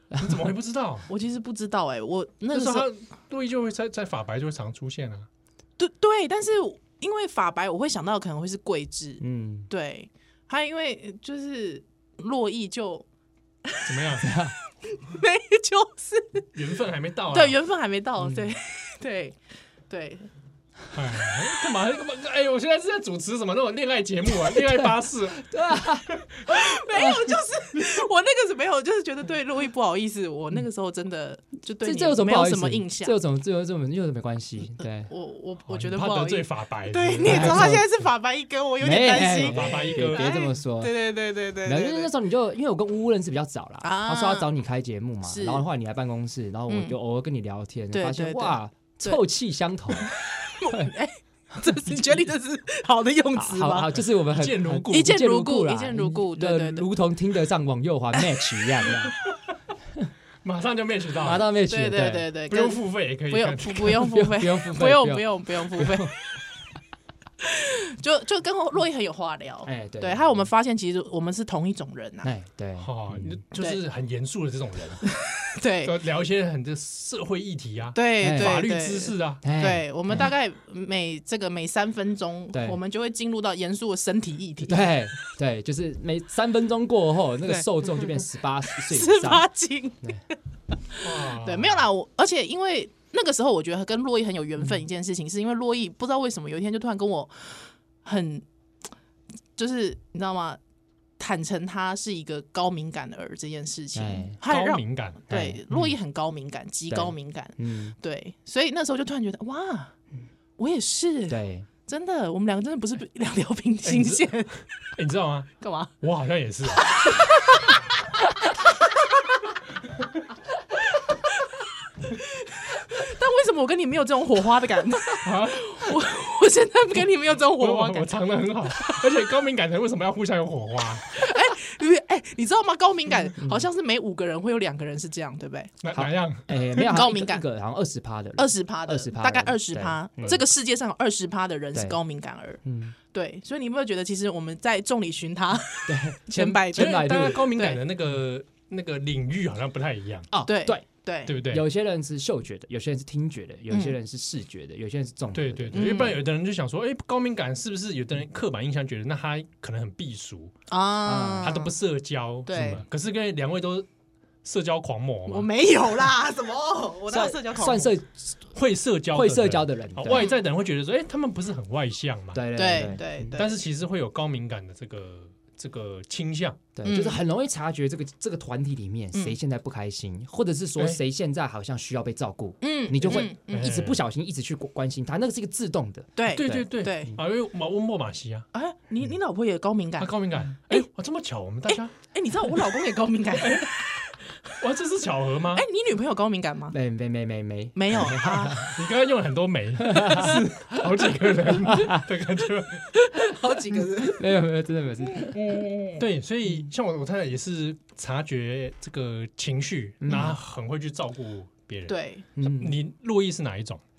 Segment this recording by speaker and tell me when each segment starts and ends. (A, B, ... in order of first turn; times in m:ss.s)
0:00.2-0:01.1 A
0:01.1-0:02.9 B
0:02.5-0:05.3 A
0:05.8-0:13.0 B
0:09.2-0:09.7 C
0:13.8-0:14.3 A
0:14.2-0:14.5 C
0:14.8-0:16.5 B
0:16.5-0:17.6 A
0:17.3-0:19.4 B
0:19.9-0:20.3 B
0:20.9-0:25.5 A
0:24.6-0:26.1 C
0:26.1-0:26.4 A
0:26.4-0:33.2 B
0:26.9-0:27.3 C
0:31.8-0:35.1 C
0:35.1-0:42.1 B
0:35.7-0:37.8 A
0:37.2-0:37.9 C
0:38.8-0:40.9 C
0:39.4-0:40.3 A
0:41.6-0:50.1 C
0:43.8-0:44.5 B
0:45.2-0:45.6 B
0:46.7-0:47.0 B
0:47.9-0:49.2 B
0:50.0-0:53.9 B
0:53.3-0:59.2 C
0:54.2-0:55.2 A
0:54.9-0:56.9 B
1:00.4-1:01.4 A
1:01.2-1:02.3 C
1:01.7-1:06.2 B
1:02.5-1:04.1 A
1:04.0-1:06.1 C
1:07.4-1:12.3 B
1:09.6-1:10.5 C
1:12.2-1:13.4 C
1:12.8-1:15.1 A
1:15.0-1:15.9 B
1:15.8-1:19.4 A
1:17.9-1:24.9 B
1:18.2-1:18.6 C
1:19.4-1:20.3 C
1:22.5-1:22.8 C
1:24.6-1:29.5 C
1:27.4-1:28.0 B
1:28.7-1:38.4 B
1:31.0-1:31.8 A
1:39.6-1:40.6 B
1:41.2-1:49.9 B
1:43.9-1:44.4 C
1:44.4-1:45.2 A
1:45.3-1:45.9 C
1:46.9-1:48.0 C
1:50.6-1:54.6 B
1:51.3-1:51.7 C
1:53.8-1:57.0 A
1:55.6-1:55.9 B
1:56.9-1:57.8 B
2:01.1-2:01.5 B
2:02.1-2:08.1 B
2:05.2-2:05.8 A
2:07.6-2:11.1 A
2:11.1-2:15.7 B
2:13.4-2:13.7 C
2:15.8-2:16.9 A
2:15.9-2:20.4 C
2:16.8-2:17.4 B
2:18.4-2:22.6 B
2:22.6-2:22.9 C
2:23.1-2:27.8 B
2:25.9-2:27.5 C
2:26.7-2:30.3 A
2:30.3-2:30.8 C
2:30.4-2:31.4 B
2:31.3-2:31.6 A
2:31.4-2:36.1 C
2:33.7-2:34.0 B
2:35.3-2:40.5 A
2:35.7-2:36.2 B
2:40.7-2:41.7 B
2:41.0-2:41.6 C
2:41.4-2:43.9 A
2:42.4-2:42.8 B
2:44.4-2:45.5 A
2:45.3-2:47.9 B
2:47.1-2:48.4 C
2:48.5-2:56.6 A
2:49.1-2:50.3 C
2:50.1-2:50.4 B
2:52.3-2:53.4 C
2:52.5-2:53.6 B
2:56.7-3:06.6 C
2:56.8-2:57.2 B
3:02.6-3:03.7 B
3:03.1-3:04.0 A
3:06.2-3:07.2 B
3:06.3-3:08.5 A
3:08.5-3:10.1 B
3:10.0-3:11.9 A
3:11.7-3:14.1 B
3:13.4-3:13.8 A
3:14.6-3:15.6 A
3:15.5-3:16.8 B
3:16.7-3:18.7 C
3:17.7-3:18.7 B
3:18.6-3:22.9 A
3:19.9-3:20.4 C
3:21.6-3:22.0 C
3:22.9-3:24.3 B
3:24.0-3:25.4 C
3:25.2-3:26.0 B
3:26.0-3:33.8 A
3:30.0-3:30.4 C
3:31.9-3:32.2 B
3:32.4-3:32.8 C